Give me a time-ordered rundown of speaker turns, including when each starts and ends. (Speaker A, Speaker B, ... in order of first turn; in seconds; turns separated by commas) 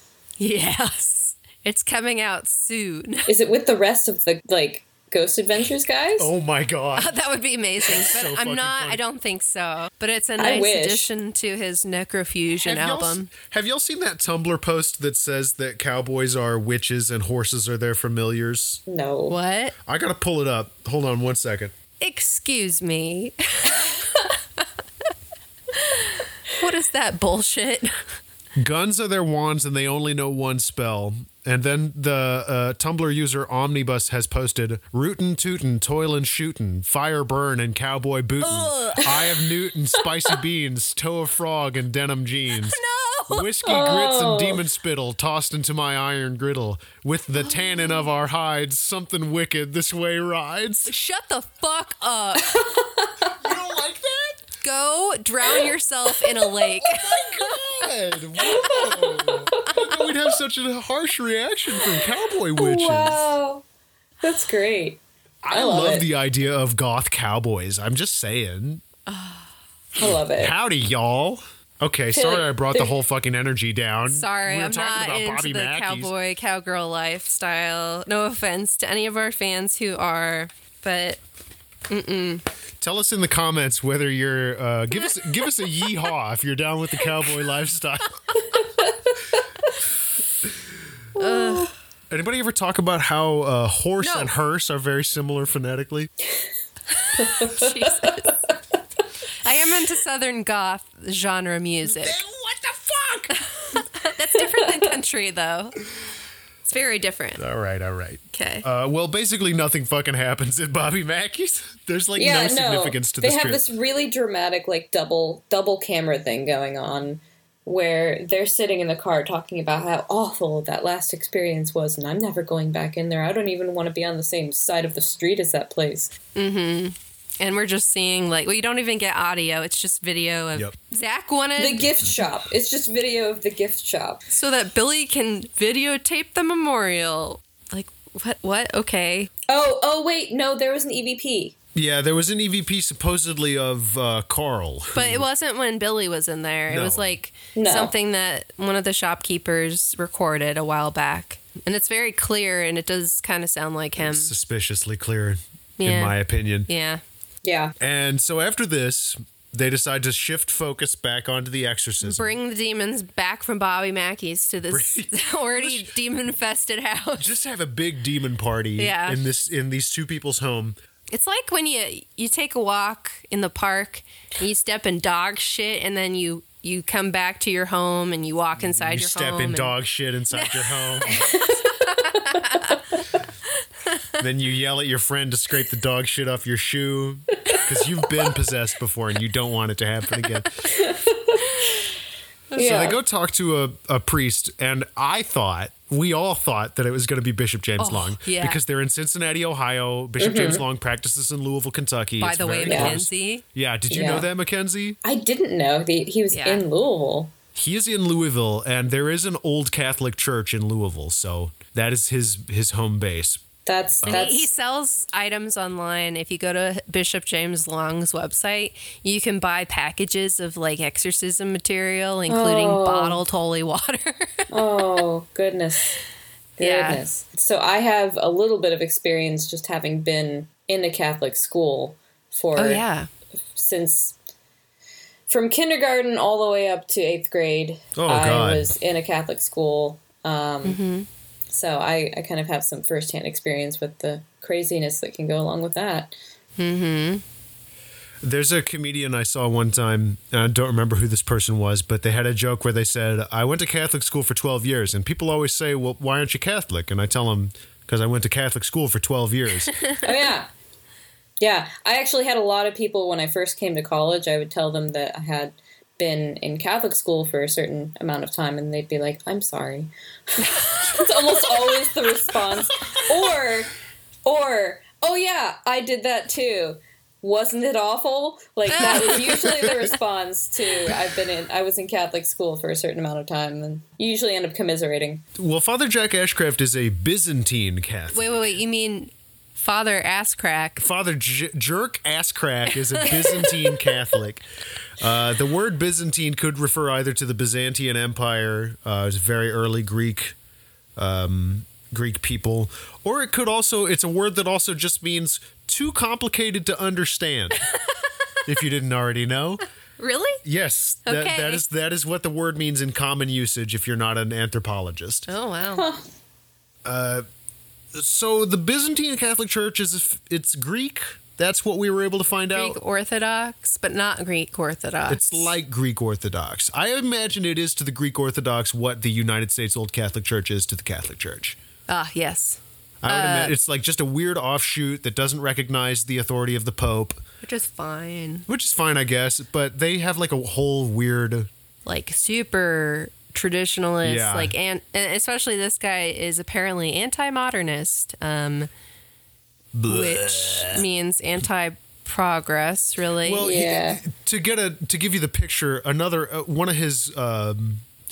Speaker A: 0.4-3.3, Speaker B: 3.3-6.3, Speaker C: 6.2-7.1, Speaker A: 7.0-13.3, Speaker C: 7.9-9.0, Speaker B: 10.4-11.1, Speaker C: 12.6-18.8, Speaker B: 18.9-19.4, Speaker A: 19.3-19.7, Speaker C: 19.9-21.7, Speaker A: 22.0-24.3, Speaker A: 25.7-27.9, Speaker C: 28.6-50.9, Speaker A: 38.4-39.3, Speaker A: 42.7-43.5, Speaker B: 43.6-44.6, Speaker A: 50.9-52.8, Speaker B: 52.5-52.8, Speaker C: 53.3-54.4, Speaker A: 54.6-57.5, Speaker C: 56.8-63.2, Speaker B: 58.4-59.8, Speaker B: 62.5-63.6, Speaker B: 64.2-65.0, Speaker C: 65.4-68.8, Speaker B: 65.5-66.1, Speaker A: 69.1-69.5, Speaker B: 70.0-70.5, Speaker C: 70.0-76.1, Speaker B: 72.1-72.9, Speaker A: 74.1-81.2, Speaker A: 81.9-82.4, Speaker C: 82.8-88.2, Speaker B: 91.2-91.7, Speaker A: 91.2-91.7, Speaker C: 92.1-96.1, Speaker A: 94.0-94.3, Speaker A: 96.9-98.4, Speaker B: 97.2-98.1, Speaker A: 99.4-102.2, Speaker C: 101.8-103.3, Speaker A: 103.6-105.8, Speaker B: 104.6-104.9, Speaker A: 106.7-107.4, Speaker C: 107.4-113.6, Speaker A: 108.3-108.6, Speaker B: 112.2-126.1, Speaker A: 126.3-131.9, Speaker B: 131.6-134.2, Speaker A: 134.3-139.3, Speaker B: 139.5-141.6, Speaker C: 141.7-145.2, Speaker A: 144.9-154.3, Speaker C: 146.7-147.1, Speaker B: 147.5-147.9, Speaker C: 154.0-156.7, Speaker A: 155.8-156.2, Speaker A: 156.7-157.0, Speaker B: 157.4-157.7, Speaker C: 157.8-162.3, Speaker A: 162.0-167.3, Speaker C: 164.7-165.9, Speaker C: 167.2-170.8, Speaker A: 168.8-169.2, Speaker A: 171.1-179.8, Speaker C: 178.6-181.2, Speaker A: 180.3-182.8, Speaker B: 181.2-181.6, Speaker C: 184.2-190.6, Speaker B: 190.7-191.4, Speaker B: 192.5-193.0, Speaker C: 192.6-205.0, Speaker A: 197.8-198.6, Speaker B: 200.2-200.6, Speaker A: 202.2-203.4, Speaker B: 202.6-203.0, Speaker B: 203.9-204.3, Speaker B: 205.0-207.3, Speaker A: 206.3-206.6, Speaker C: 207.5-213.4, Speaker B: 213.7-214.5, Speaker A: 214.1-224.4, Speaker B: 222.3-223.2, Speaker B: 224.5-226.0, Speaker B: 226.6-232.8, Speaker A: 226.6-227.0, Speaker A: 232.6-233.1, Speaker B: 233.6-234.2, Speaker B: 235.3-240.8, Speaker C: 237.9-238.7, Speaker A: 240.6-241.1, Speaker B: 241.5-246.1, Speaker A: 246.6-247.2, Speaker C: 248.2-259.7, Speaker B: 260.0-260.5, Speaker B: 261.4-273.7, Speaker A: 270.6-270.9, Speaker B: 274.2-285.2, Speaker A: 278.7-279.7, Speaker C: 285.4-288.4, Speaker A: 288.1-290.8, Speaker C: 290.8-294.4, Speaker A: 293.0-293.9, Speaker C: 295.0-300.3, Speaker C: 300.9-307.6, Speaker C: 308.4-309.6, Speaker A: 310.0-310.4, Speaker C: 310.4-315.3, Speaker A: 311.0-311.6, Speaker A: 315.3-315.9, Speaker B: 315.7-316.0, Speaker C: 316.8-317.2, Speaker C: 317.9-322.8, Speaker A: 322.5-325.5, Speaker C: 325.1-331.6, Speaker A: 331.9-333.5, Speaker C: 333.0-337.2, Speaker A: 337.4-338.4, Speaker C: 338.5-341.5, Speaker A: 341.9-348.7, Speaker C: 344.0-344.5, Speaker C: 349.7-350.8, Speaker A: 349.9-353.5, Speaker C: 353.2-357.8, Speaker B: 353.4-354.0